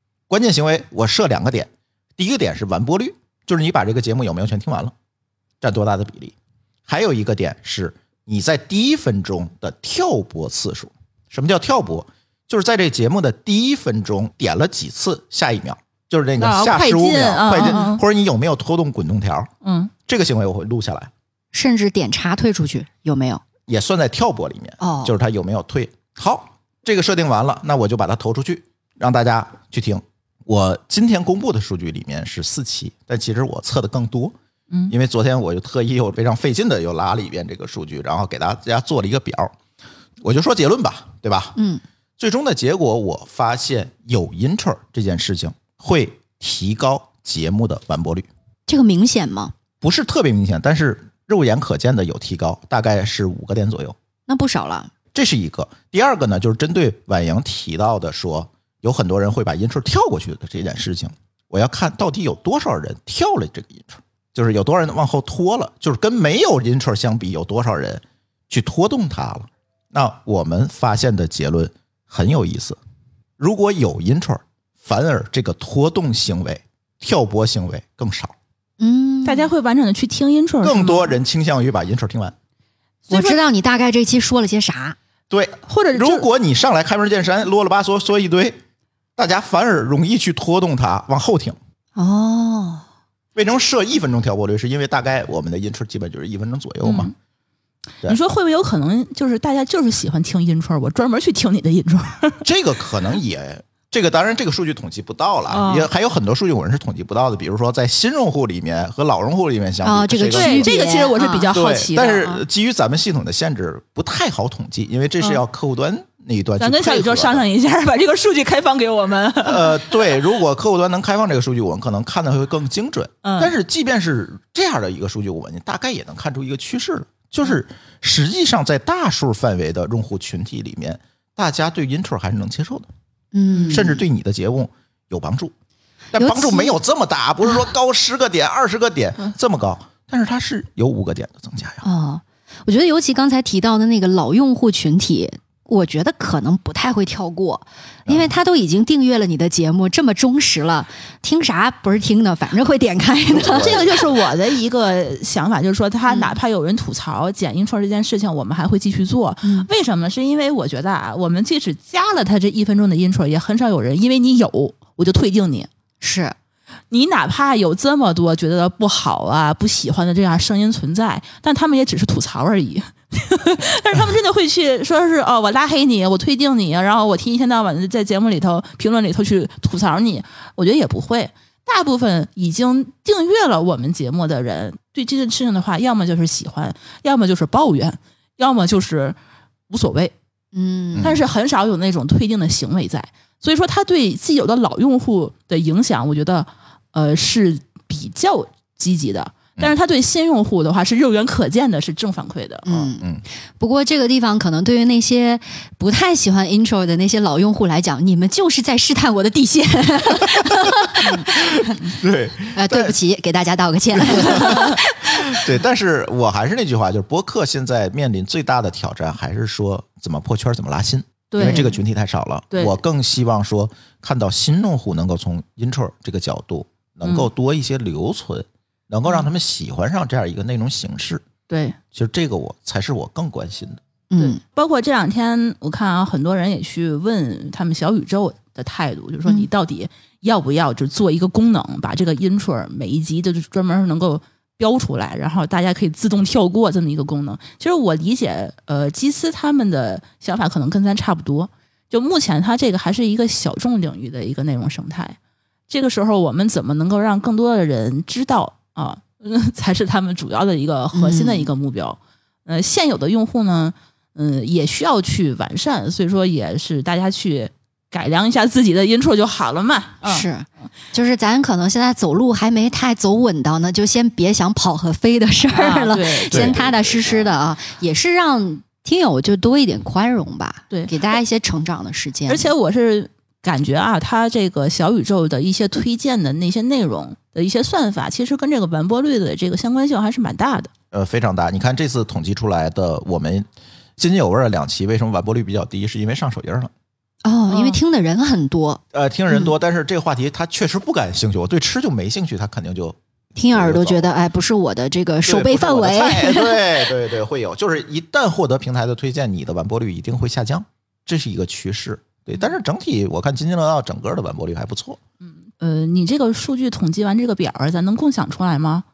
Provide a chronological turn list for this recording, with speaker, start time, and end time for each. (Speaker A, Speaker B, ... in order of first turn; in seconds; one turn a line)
Speaker A: 0.3-4.9
Speaker A: 5.6-6.3
Speaker A: 6.9-19.5
Speaker B: 16.4-18.0
Speaker C: 17.6-17.9
Speaker B: 19.6-19.9
Speaker A: 20.1-21.1
Speaker C: 21.5-23.4
Speaker A: 23.7-34.3
Speaker C: 24.8-25.1
Speaker A: 34.9-39.5
Speaker A: 40.2-41.6
Speaker C: 41.6-41.8
Speaker A: 42.2-48.3
Speaker C: 48.7-49.5
Speaker A: 49.8-54.0
Speaker C: 54.3-54.9
Speaker A: 55.1-72.8
Speaker A: 73.4-78.3
Speaker C: 78.8-79.5
Speaker B: 79.2-81.2
Speaker A: 80.6-82.3
Speaker B: 83.1-83.4
Speaker C: 83.1-85.0
Speaker A: 85.3-88.6
Speaker B: 85.7-86.2
Speaker A: 89.2-91.6
Speaker C: 92.0-92.8
Speaker A: 93.3-97.1
Speaker B: 96.8-97.1
Speaker B: 98.0-102.5
Speaker A: 102.4-110.7
Speaker B: 105.5-105.9
Speaker C: 109.8-111.5
Speaker B: 110.3-112.4
Speaker A: 111.5-117.4
Speaker B: 116.6-120.2
Speaker A: 119.4-132.9
Speaker B: 123.2-123.5
Speaker C: 133.3-134.0
Speaker A: 133.7-135.5
Speaker A: 136.1-141.8
Speaker C: 136.1-136.8
Speaker C: 141.8-153.8
Speaker A: 153.3-154.1
Speaker B: 153.4-165.7
Speaker C: 156.1-156.3
Speaker C: 166.0-166.3
Speaker B: 166.9-189.2
Speaker B: 189.7-190.1
Speaker C: 190.5-191.1
Speaker A: 190.9-191.2
Speaker B: 191.0-202.7
Speaker C: 202.6-203.0
Speaker A: 202.7-203.2
Speaker C: 203.6-211.8
Speaker A: 211.0-212.9
Speaker C: 212.5-215.3
Speaker A: 214.0-231.2
Speaker B: 221.3-221.7
Speaker C: 221.4-221.7
Speaker B: 222.5-222.8
Speaker B: 231.5-231.8
Speaker A: 231.9-233.8
Speaker C: 234.1-234.4
Speaker B: 234.2-255.2
Speaker B: 255.7-270.3
Speaker C: 260.9-261.5
Speaker C: 270.0-282.5
Speaker B: 275.5-276.6
Speaker A: 276.3-277.3
Speaker B: 282.3-290.7
Speaker A: 290.9-296.7
Speaker C: 297.2-299.5
Speaker B: 297.5-297.8
Speaker A: 298.9-303.0
Speaker C: 303.4-306.6
Speaker A: 303.5-304.1
Speaker A: 305.2-315.0
Speaker B: 315.5-318.8